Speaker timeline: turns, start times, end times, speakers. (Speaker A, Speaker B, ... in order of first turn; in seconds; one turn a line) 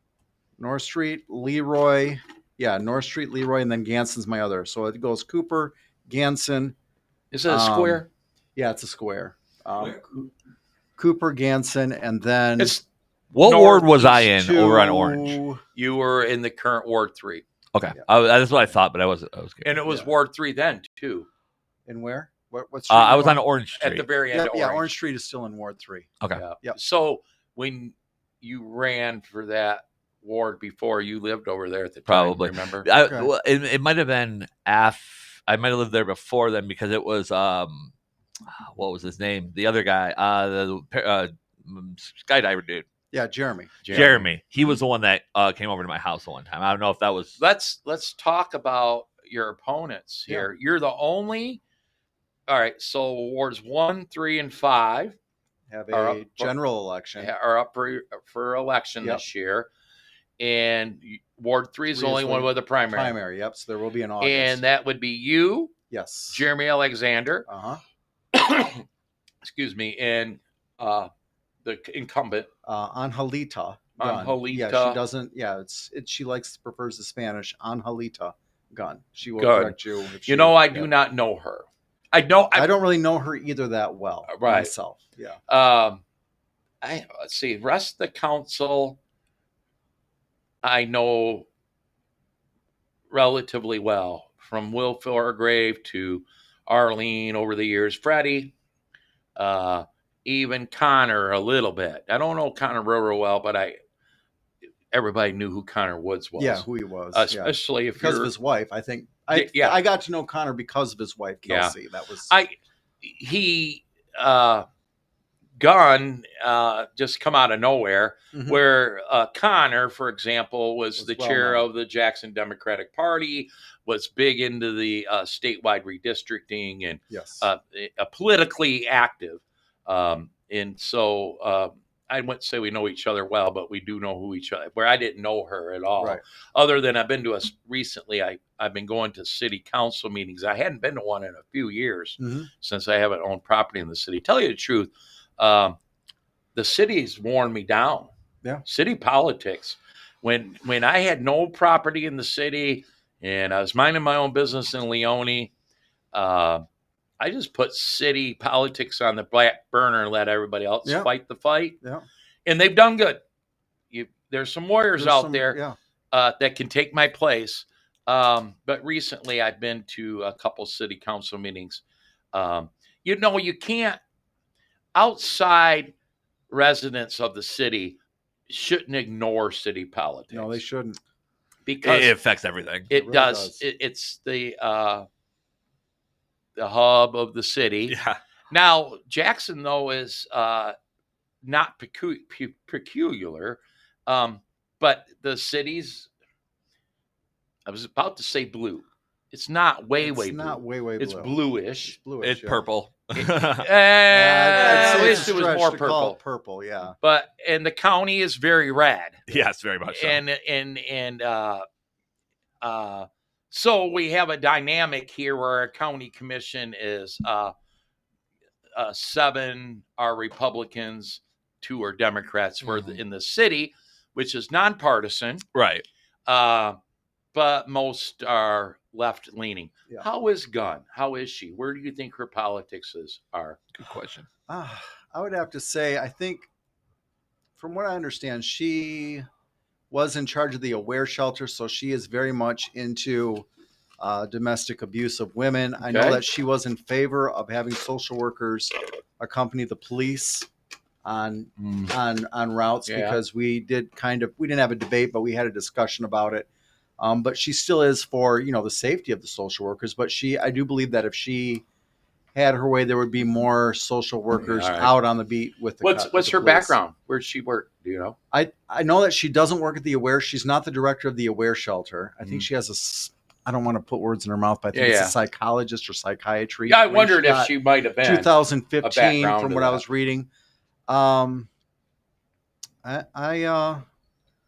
Speaker A: 0.6-6.8
Speaker B: 7.3-8.1
Speaker A: 7.5-8.0
Speaker A: 8.6-10.0
Speaker A: 11.0-12.8
Speaker B: 12.6-12.8
Speaker C: 13.3-15.4
Speaker B: 13.4-14.3
Speaker A: 13.4-15.6
Speaker B: 15.7-17.4
Speaker C: 17.7-19.8
Speaker B: 19.6-21.3
Speaker A: 21.9-23.4
Speaker C: 22.9-24.1
Speaker B: 23.8-24.9
Speaker A: 24.3-26.1
Speaker B: 26.3-32.9
Speaker C: 32.1-37.9
Speaker A: 33.0-33.3
Speaker C: 38.5-42.9
Speaker A: 43.1-43.8
Speaker B: 43.8-44.3
Speaker C: 43.9-47.4
Speaker B: 47.4-51.6
Speaker B: 52.5-55.2
Speaker A: 55.7-57.3
Speaker B: 55.9-56.5
Speaker B: 57.2-59.7
Speaker A: 59.0-59.2
Speaker B: 60.4-63.2
Speaker A: 61.9-64.6
Speaker B: 64.2-65.7
Speaker A: 65.9-66.5
Speaker B: 66.3-67.5
Speaker A: 67.5-67.8
Speaker B: 68.3-68.8
Speaker B: 69.4-71.1
Speaker B: 71.6-72.5
Speaker A: 72.7-80.9
Speaker B: 74.0-75.0
Speaker B: 79.4-82.7
Speaker A: 82.5-85.4
Speaker B: 84.3-84.7
Speaker B: 85.5-86.0
Speaker B: 86.8-89.0
Speaker B: 90.6-91.5
Speaker B: 93.1-98.5
Speaker B: 99.3-103.8
Speaker B: 104.9-108.3
Speaker A: 106.4-112.3
Speaker B: 109.3-109.8
Speaker B: 111.5-111.8
Speaker B: 112.3-114.7
Speaker B: 115.6-145.8
Speaker A: 118.3-118.6
Speaker A: 121.0-121.7
Speaker A: 127.1-127.5
Speaker A: 142.2-142.5
Speaker B: 146.5-148.1
Speaker B: 148.7-155.5
Speaker B: 156.1-156.6
Speaker B: 157.2-161.8
Speaker A: 160.8-161.1
Speaker B: 162.4-163.2
Speaker B: 163.9-165.6
Speaker A: 165.0-165.8
Speaker B: 166.1-171.8
Speaker B: 172.3-174.0
Speaker B: 174.9-175.9
Speaker B: 176.5-178.0
Speaker B: 178.5-180.6
Speaker A: 180.3-181.0
Speaker B: 181.7-182.2
Speaker C: 181.8-182.9
Speaker B: 182.9-185.1
Speaker A: 182.9-183.6
Speaker B: 186.6-187.9
Speaker C: 187.9-188.2
Speaker B: 188.5-190.7
Speaker B: 191.4-196.1
Speaker B: 197.7-202.0
Speaker A: 200.0-202.7
Speaker C: 202.2-203.7
Speaker B: 203.1-206.2
Speaker A: 204.1-206.9
Speaker C: 204.5-205.4
Speaker B: 207.0-211.6
Speaker C: 209.3-210.2
Speaker B: 212.6-217.5
Speaker B: 218.7-225.4
Speaker C: 222.6-222.9
Speaker C: 225.5-225.8
Speaker B: 226.3-226.8
Speaker B: 227.3-233.6
Speaker C: 233.8-234.3
Speaker A: 234.5-236.5
Speaker A: 237.6-239.2
Speaker A: 239.9-243.5
Speaker A: 244.0-250.5
Speaker B: 245.8-246.2
Speaker A: 251.0-256.5
Speaker B: 251.6-251.9
Speaker B: 252.9-253.2
Speaker A: 257.0-261.6
Speaker A: 262.3-266.8
Speaker B: 264.3-264.9
Speaker B: 265.8-268.1
Speaker A: 268.3-280.3
Speaker B: 272.2-272.5
Speaker B: 274.7-275.2
Speaker B: 276.7-279.8
Speaker A: 280.9-281.5
Speaker A: 282.8-283.8